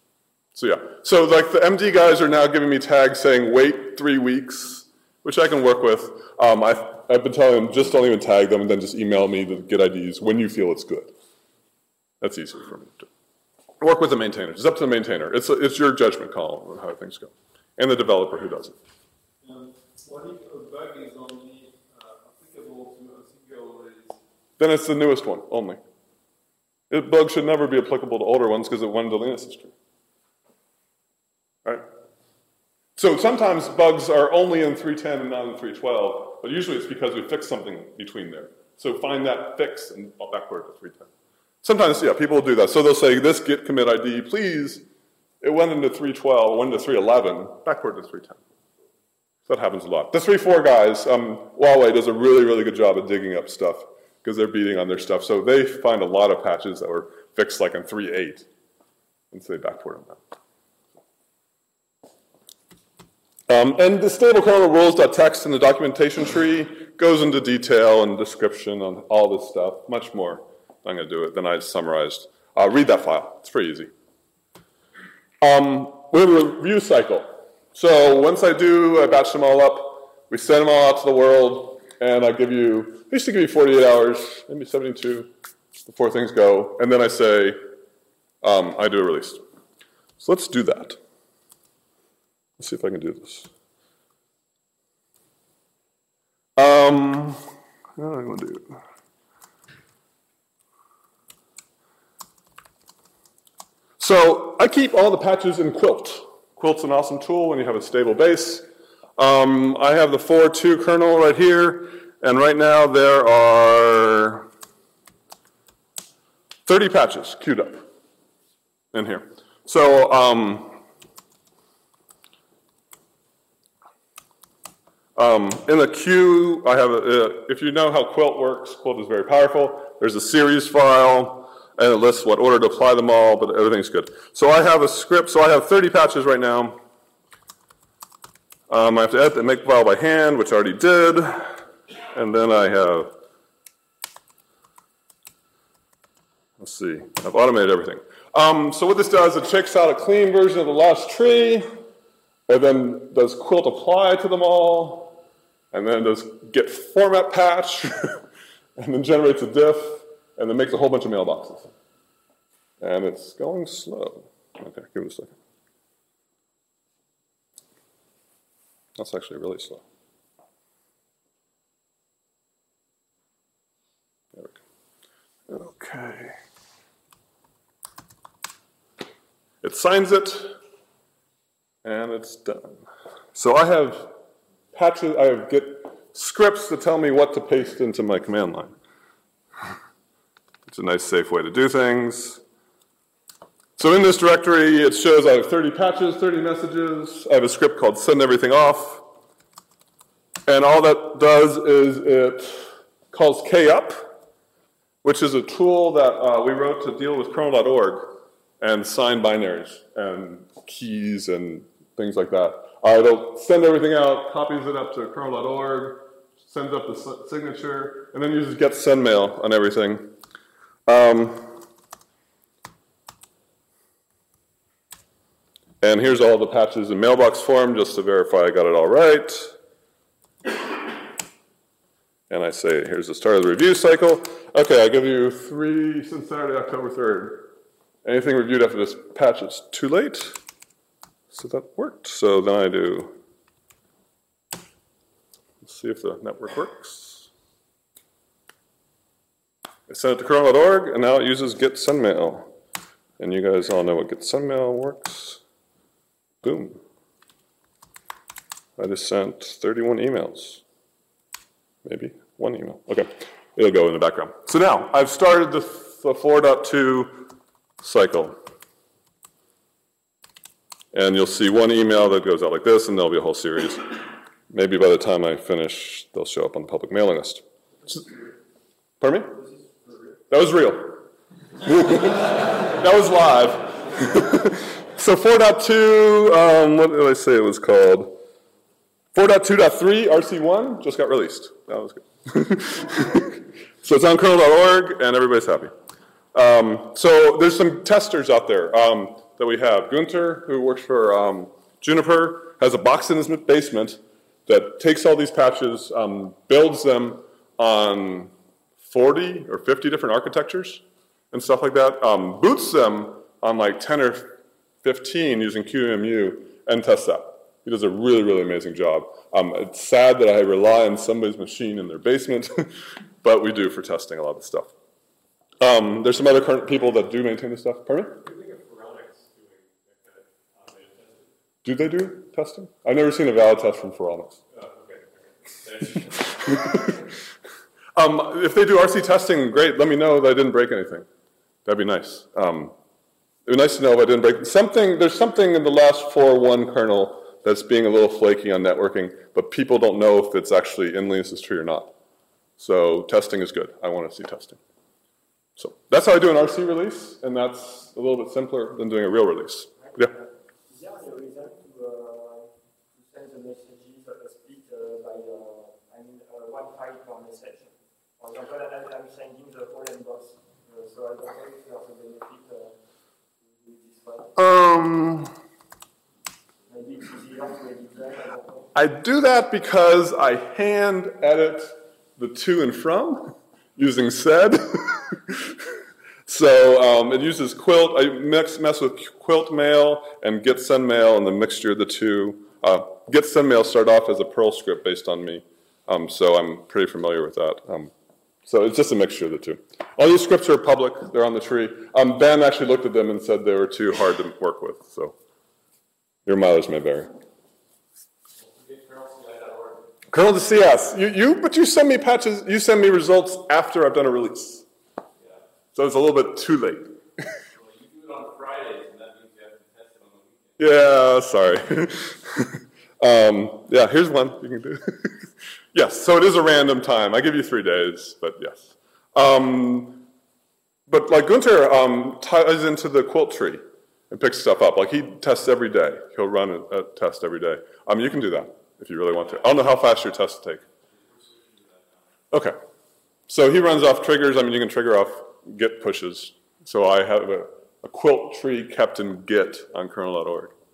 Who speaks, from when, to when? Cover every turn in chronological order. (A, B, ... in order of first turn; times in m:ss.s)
0:00.6-0:11.1 A
0:12.2-0:13.1 A
0:13.8-0:18.8 A
0:19.4-0:24.2 B
0:24.6-0:25.8 A
0:26.9-0:29.7 A
0:33.0-0:41.1 A
0:41.6-0:44.9 A
0:45.4-0:48.4 A
0:49.5-0:58.5 A
0:59.3-1:00.2 A
1:03.5-1:13.9 A
1:15.4-1:25.3 A
1:25.8-1:27.6 A
1:28.4-1:29.4 A
1:30.2-1:31.0 A
1:32.6-1:33.5 A
1:36.6-1:37.4 A
1:38.0-1:38.8 A
1:44.0-1:48.6 A
1:49.2-1:54.5 A
1:56.6-1:57.9 A
1:58.9-2:00.8 A
2:05.2-2:16.8 A
2:18.7-2:21.6 A
2:22.1-2:23.1 A
2:26.6-2:31.7 A
2:32.5-2:35.2 A
2:35.7-2:38.2 A
2:38.8-2:41.7 A
2:42.8-2:45.4 A
2:49.0-2:49.8 A
2:54.3-2:54.6 A
2:55.5-2:56.4 A
2:59.6-3:00.6 A
3:01.8-3:04.1 A
3:04.7-3:08.7 A
3:10.7-3:12.4 A
3:13.8-3:19.1 A
3:20.5-3:24.2 A
3:25.0-3:40.2 A
3:40.9-3:41.6 A
3:45.8-3:49.6 A
3:52.3-3:57.5 A
3:58.0-4:00.4 A
4:01.3-4:03.2 A
4:05.6-4:07.3 A
4:09.9-4:12.5 A
4:13.2-4:15.4 A
4:16.4-4:16.8 A
4:18.8-4:20.6 A
4:21.8-4:28.4 A
4:30.9-4:38.0 A
4:39.0-4:39.4 A
4:40.3-4:41.1 A
4:41.6-4:48.2 A
4:49.1-4:55.7 A
4:56.3-5:08.3 A
5:08.8-5:24.7 A
5:25.6-5:28.2 A
5:28.2-5:31.3 C
5:31.6-5:34.4 A
5:34.5-5:37.0 C
5:36.5-5:37.0 A
5:38.0-5:41.1 A
5:41.6-5:42.7 A
5:43.5-5:51.9 A
5:52.6-5:54.6 A
5:55.6-6:00.1 A
5:59.8-6:12.8 D
6:13.5-6:14.4 D
6:14.4-6:15.3 A
6:16.7-6:18.7 D
6:18.8-6:37.9 A
6:38.4-6:45.1 A
6:46.3-6:47.1 A
6:48.4-6:50.0 C
6:50.1-6:54.6 A
6:55.7-6:57.3 A
6:57.5-7:00.7 C
7:00.6-7:10.1 A
7:10.9-7:20.6 A
7:20.9-7:22.1 C
7:22.3-7:22.6 A
7:23.3-7:30.5 A